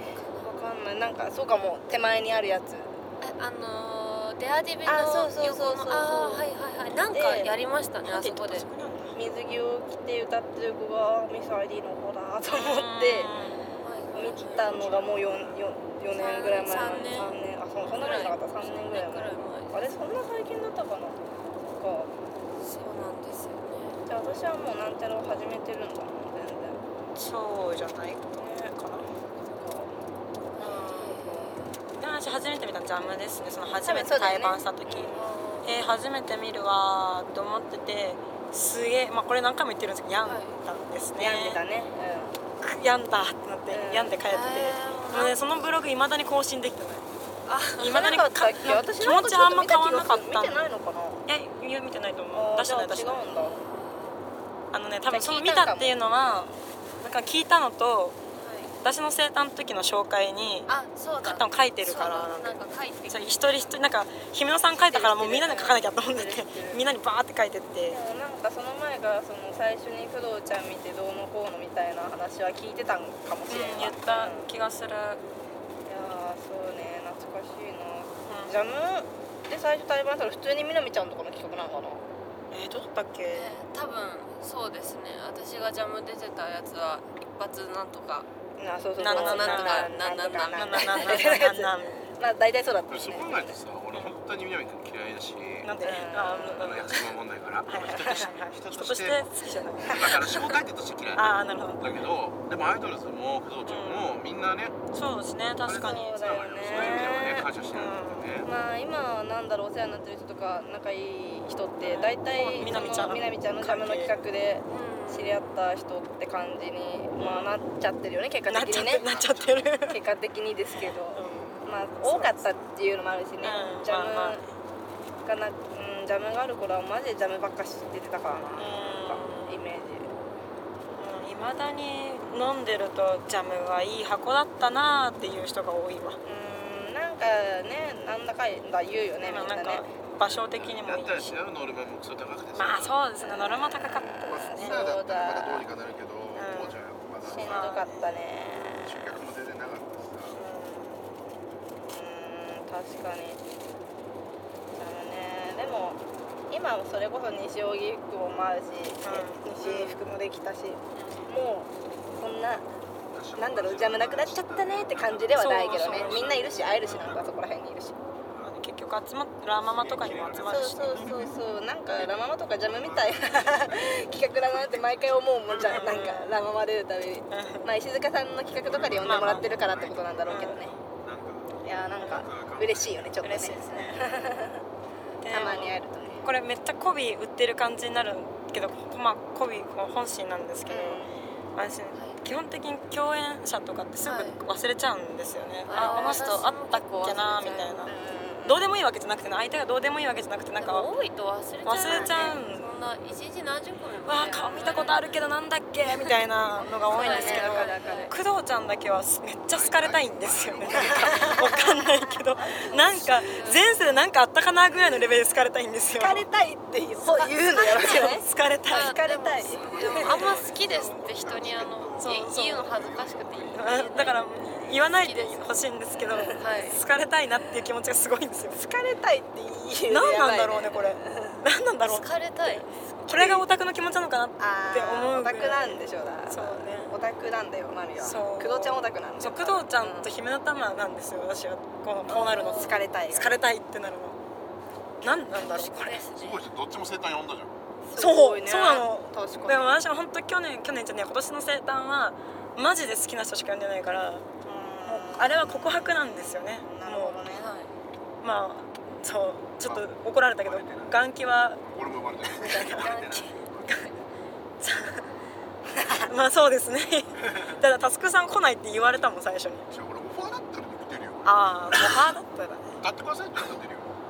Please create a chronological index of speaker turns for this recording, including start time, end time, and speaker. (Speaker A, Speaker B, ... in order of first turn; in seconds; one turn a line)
Speaker A: 0.3-3.0
Speaker B: 3.2-8.7
Speaker A: 4.8-6.5
Speaker A: 7.1-7.5
Speaker C: 8.0-9.2
Speaker A: 9.1-13.3
Speaker C: 12.5-13.7
Speaker B: 13.8-14.8
Speaker A: 14.1-22.1
Speaker D: 14.8-15.3
Speaker B: 16.1-19.9
Speaker B: 22.6-24.0
Speaker A: 24.1-26.8
Speaker C: 27.1-29.1
Speaker A: 29.4-29.9
Speaker B: 30.5-31.8
Speaker A: 30.6-31.6
Speaker C: 32.0-41.6
Speaker A: 33.8-35.3
Speaker B: 35.1-35.9
Speaker B: 40.2-40.6
Speaker A: 41.1-42.4
Speaker C: 42.6-47.0
Speaker A: 43.7-44.2
Speaker B: 44.3-45.4
Speaker B: 47.5-48.1
Speaker C: 47.8-50.7
Speaker A: 47.8-51.3
Speaker C: 51.2-53.3
Speaker A: 52.3-53.6
Speaker B: 53.3-54.1
Speaker C: 54.7-58.1
Speaker A: 55.1-56.0
Speaker B: 58.3-58.7
Speaker C: 58.8-60.7
Speaker B: 60.7-63.8
Speaker C: 61.2-68.0
Speaker A: 64.9-66.8
Speaker A: 67.9-74.5
Speaker C: 73.5-75.2
Speaker A: 75.8-82.0
Speaker C: 78.2-78.6
Speaker C: 82.5-83.5
Speaker B: 83.3-88.3
Speaker A: 88.6-93.6
Speaker C: 89.0-92.1
Speaker B: 89.1-91.3
Speaker D: 92.9-95.7
Speaker C: 93.9-94.2
Speaker C: 95.6-97.0
Speaker A: 95.8-96.8
Speaker D: 96.5-99.3
Speaker C: 97.7-100.1
Speaker D: 99.8-104.8
Speaker C: 101.1-102.0
Speaker C: 103.6-104.1
Speaker C: 104.9-106.1
Speaker D: 105.6-108.5
Speaker A: 105.8-107.5
Speaker C: 106.6-108.3
Speaker A: 108.4-119.1
Speaker C: 111.8-114.2
Speaker B: 114.7-115.4
Speaker C: 117.2-117.6
Speaker C: 118.5-120.0
Speaker D: 119.0-119.8
Speaker A: 119.9-124.4
Speaker C: 120.8-122.4
Speaker C: 123.4-124.4
Speaker A: 125.2-130.1
Speaker C: 128.5-129.6
Speaker C: 130.9-136.2
Speaker A: 136.2-139.9
Speaker C: 139.2-141.4
Speaker D: 140.5-143.0
Speaker C: 142.5-144.7
Speaker D: 143.8-147.8
Speaker A: 144.0-145.7
Speaker C: 146.3-146.8
Speaker A: 147.2-149.1
Speaker C: 147.4-148.2
Speaker D: 148.8-150.4
Speaker C: 150.3-151.2
Speaker A: 151.9-153.4
Speaker A: 154.7-162.7
Speaker C: 159.0-160.0
Speaker C: 160.9-161.2
Speaker D: 163.1-165.1
Speaker A: 163.3-167.9
Speaker C: 165.3-167.1
Speaker D: 165.9-167.2
Speaker C: 168.3-171.0
Speaker D: 169.7-171.4
Speaker A: 170.4-180.8
Speaker D: 172.9-173.9
Speaker C: 175.6-176.4
Speaker C: 177.3-177.7
Speaker D: 178.6-180.0
Speaker C: 179.0-179.5
Speaker C: 180.3-180.6
Speaker D: 180.9-181.6
Speaker A: 181.6-184.6
Speaker D: 182.2-183.1
Speaker C: 183.2-184.1
Speaker C: 185.2-200.9
Speaker A: 185.3-186.2
Speaker A: 190.7-191.2
Speaker B: 191.9-192.2
Speaker B: 194.0-194.4
Speaker B: 195.7-197.9
Speaker A: 195.7-196.1
Speaker A: 197.9-198.7
Speaker B: 200.6-205.1
Speaker C: 201.6-202.7
Speaker A: 201.9-202.4
Speaker C: 204.0-216.2
Speaker A: 206.5-208.1
Speaker B: 206.9-208.1
Speaker D: 209.5-211.7
Speaker A: 210.6-211.4
Speaker A: 212.5-213.2
Speaker B: 213.2-213.7
Speaker A: 216.0-218.2
Speaker C: 217.5-219.0
Speaker B: 217.6-218.1
Speaker B: 218.6-225.6
Speaker A: 218.8-220.3
Speaker D: 219.5-223.8
Speaker C: 222.0-222.7
Speaker C: 223.5-228.6
Speaker A: 226.1-226.4
Speaker B: 226.3-226.8
Speaker A: 228.5-231.4
Speaker C: 229.9-232.1
Speaker B: 231.8-232.8
Speaker A: 232.4-233.4
Speaker C: 233.1-236.9
Speaker A: 234.4-240.1
Speaker C: 238.0-244.2
Speaker A: 242.1-243.4
Speaker B: 242.1-242.8
Speaker C: 245.0-246.0
Speaker B: 245.0-246.5
Speaker D: 246.1-247.5
Speaker A: 247.8-249.8
Speaker C: 247.9-254.3
Speaker A: 254.4-257.5
Speaker C: 254.8-257.2
Speaker B: 257.3-257.7
Speaker C: 258.2-261.6
Speaker D: 259.6-261.0
Speaker D: 261.6-263.8
Speaker C: 262.4-262.9
Speaker A: 262.4-263.3
Speaker C: 264.6-265.1
Speaker C: 265.8-269.6
Speaker D: 267.2-267.6
Speaker D: 269.7-272.1
Speaker C: 271.2-272.8
Speaker D: 272.8-273.9